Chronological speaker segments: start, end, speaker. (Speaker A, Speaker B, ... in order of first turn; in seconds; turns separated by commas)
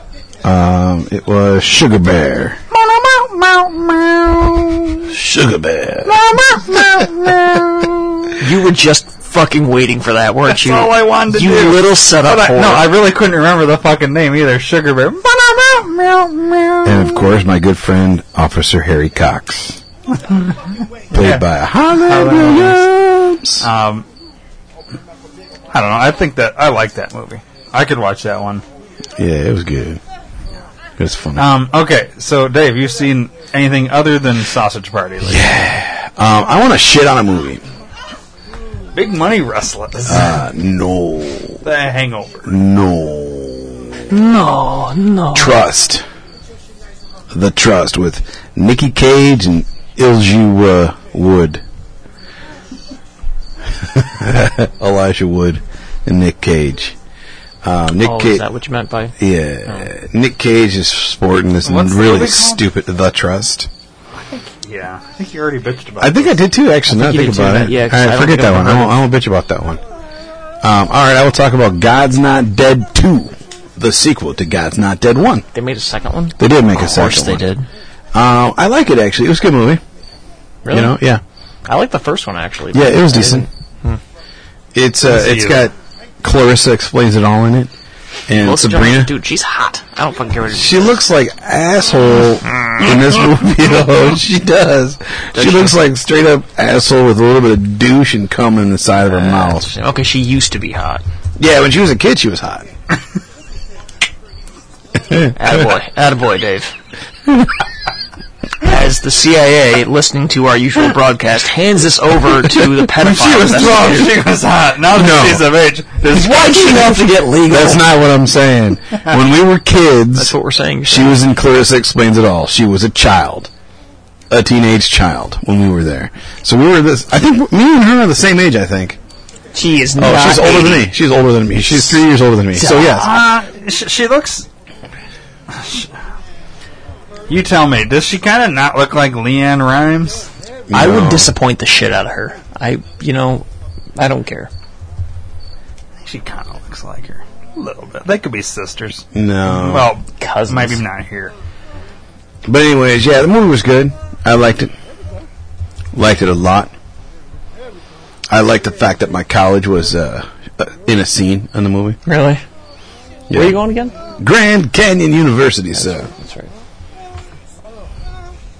Speaker A: 0.4-2.6, Speaker B: 2.7-5.1, Speaker A: 5.1-6.2, Speaker B: 6.0-8.3, Speaker C: 8.4-13.0, Speaker B: 10.5-17.2, Speaker A: 16.8-19.8, Speaker B: 20.1-22.9, Speaker A: 21.1-23.6, Speaker B: 23.6-24.1, Speaker B: 25.7-28.6, Speaker A: 29.2-30.0, Speaker A: 31.0-31.5, Speaker B: 31.4-35.6, Speaker A: 35.2-37.6, Speaker B: 38.9-40.4, Speaker A: 40.1-41.6, Speaker B: 41.6-42.5, Speaker A: 42.5-44.0, Speaker C: 44.1-45.6, Speaker A: 45.3-46.0, Speaker A: 47.3-51.6, Speaker A: 53.8-56.9, Speaker A: 57.6-58.4, Speaker C: 58.0-59.1, Speaker A: 59.2-63.7, Speaker B: 61.6-62.6, Speaker B: 64.2-66.4, Speaker A: 66.0-69.8, Speaker C: 66.9-69.0, Speaker A: 70.6-75.5, Speaker C: 75.5-77.7, Speaker A: 76.4-77.5, Speaker A: 78.1-79.8, Speaker C: 80.6-81.0, Speaker A: 80.7-81.2, Speaker C: 81.7-84.0, Speaker A: 82.7-83.5, Speaker A: 84.7-87.7, Speaker B: 85.0-85.6, Speaker A: 88.3-89.1, Speaker C: 88.4-91.0, Speaker A: 90.5-99.7, Speaker C: 95.3-95.8, Speaker C: 99.1-101.0, Speaker A: 101.4-102.7, Speaker A: 105.1-105.3, Speaker C: 105.3-106.7, Speaker C: 108.6-114.1, Speaker B: 113.0-116.9, Speaker A: 114.9-115.5, Speaker C: 116.1-117.8, Speaker A: 117.4-120.3, Speaker C: 120.2-121.2, Speaker A: 120.9-123.5, Speaker A: 124.3-129.0, Speaker C: 129.5-130.9, Speaker A: 130.0-133.1, Speaker C: 132.6-133.2, Speaker B: 133.0-134.4, Speaker B: 135.5-135.9, Speaker B: 137.3-140.3, Speaker A: 140.7-141.3, Speaker C: 140.7-143.4, Speaker C: 143.9-144.5, Speaker B: 146.0-151.3, Speaker A: 149.1-149.9, Speaker C: 150.2-150.8, Speaker A: 152.4-154.7, Speaker A: 155.9-156.7, Speaker A: 158.3-162.0, Speaker C: 162.1-162.4, Speaker A: 163.3-163.6, Speaker C: 163.3-163.9, Speaker A: 164.2-166.1, Speaker C: 165.8-166.5